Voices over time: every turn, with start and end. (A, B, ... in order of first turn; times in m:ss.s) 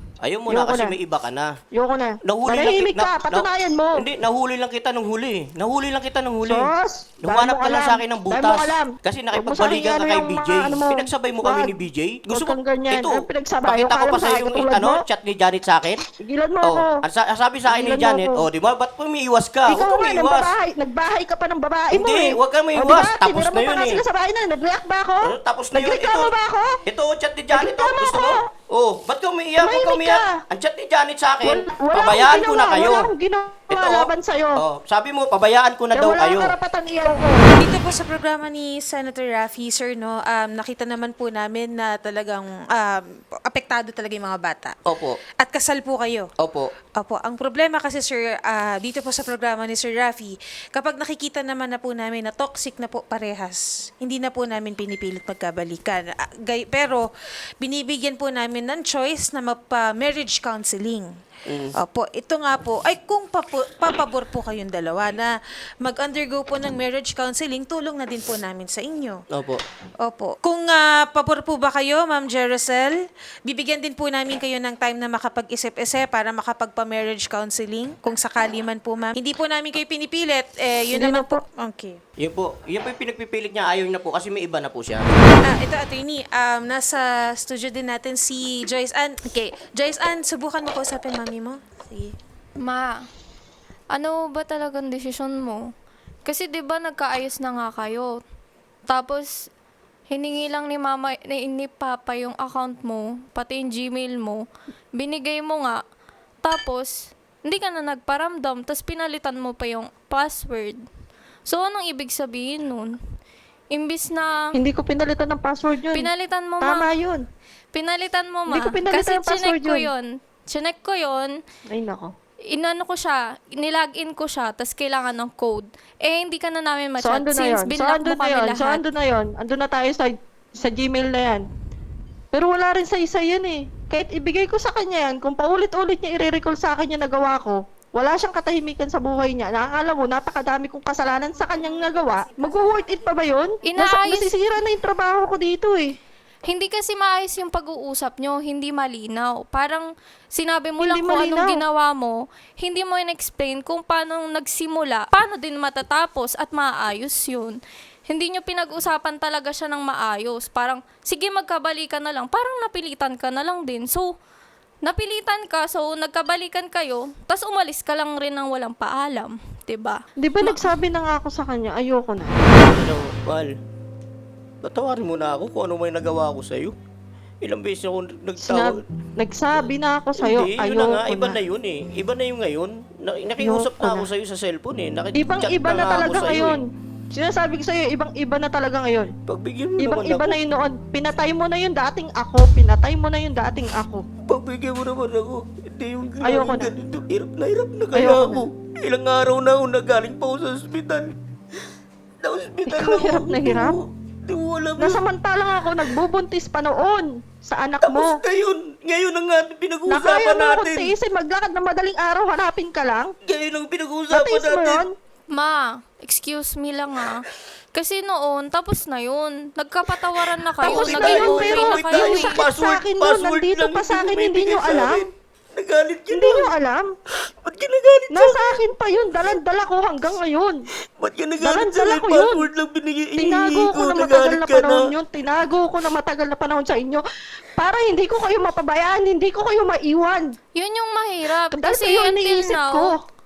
0:00.2-0:01.5 A
0:00.5-0:01.0 B
0:01.7-0:04.0 B
0:02.3-0:06.7 A
0:06.4-0:11.7 B
0:07.2-0:16.0 A
0:12.3-0:15.0 B
0:16.2-0:17.0 B
0:16.6-0:20.5 A
0:17.7-0:18.4 B
0:19.7-0:26.8 B
0:21.9-0:24.0 A
0:25.2-0:26.3 A
0:26.9-0:33.1 A
0:27.5-0:28.5 B
0:29.6-0:30.4 B
0:31.4-0:34.6 B
0:33.7-0:36.5 A
0:36.0-0:37.5 B
0:37.6-0:44.8 C
0:44.8-0:45.2 A
0:45.4-0:46.3 C
0:46.4-0:46.7 A
0:47.0-0:57.1 C
0:57.6-1:01.2 C
1:01.5-1:01.8 A
1:01.8-1:09.2 C
1:09.3-1:09.6 A
1:10.0-1:12.9 C
1:13.4-1:22.0 C
1:20.9-1:21.4 B
1:22.2-1:25.2 A
1:25.4-1:32.2 C
1:32.6-1:33.0 D
1:33.9-1:35.7 D
1:36.2-1:38.2 D
1:38.9-1:39.5 D
1:40.1-1:44.4 D
1:45.0-1:45.8 D
1:46.4-1:50.8 D
1:51.5-1:53.0 D
1:53.7-1:54.6 D
1:54.6-1:56.1 B
1:55.9-1:56.9 D
1:56.6-1:57.2 B
1:57.7-2:01.4 D
1:58.5-1:59.9 B
2:01.7-2:02.1 B
2:02.5-2:08.8 D
2:07.0-2:11.4 B
2:12.3-2:26.0 B
2:23.6-2:24.3 D
2:26.5-2:37.6 D
2:30.8-2:31.6 B
2:38.1-2:44.1 D
2:44.8-2:50.6 D
2:50.2-2:52.4 B
2:52.7-2:53.5 A
2:54.6-2:56.8 A
2:57.4-2:58.8 A
2:58.4-3:01.4 B
3:00.2-3:06.6 A
3:03.4-3:04.1 B
3:05.2-3:09.1 B
3:09.3-3:10.4 A
3:09.8-3:14.0 B
3:14.3-3:21.1 A
3:16.2-3:16.7 B
3:18.0-3:18.5 B
3:22.2-3:25.0 A
3:22.7-3:23.8 B
3:24.8-3:28.2 B
3:27.8-3:31.0 A
3:29.9-3:33.1 B
3:33.2-3:34.8 A
3:34.1-3:34.9 B
3:35.3-3:42.4 D
3:40.4-3:46.5 A
3:40.6-3:45.0 B
3:46.1-3:46.9 B
3:47.3-3:48.6 A
3:48.1-3:50.6 B
3:51.0-3:54.9 A
3:51.4-3:52.4 B
3:53.2-3:57.0 B
3:57.6-4:00.4 B
4:00.6-4:03.0 D
4:01.5-4:03.0 B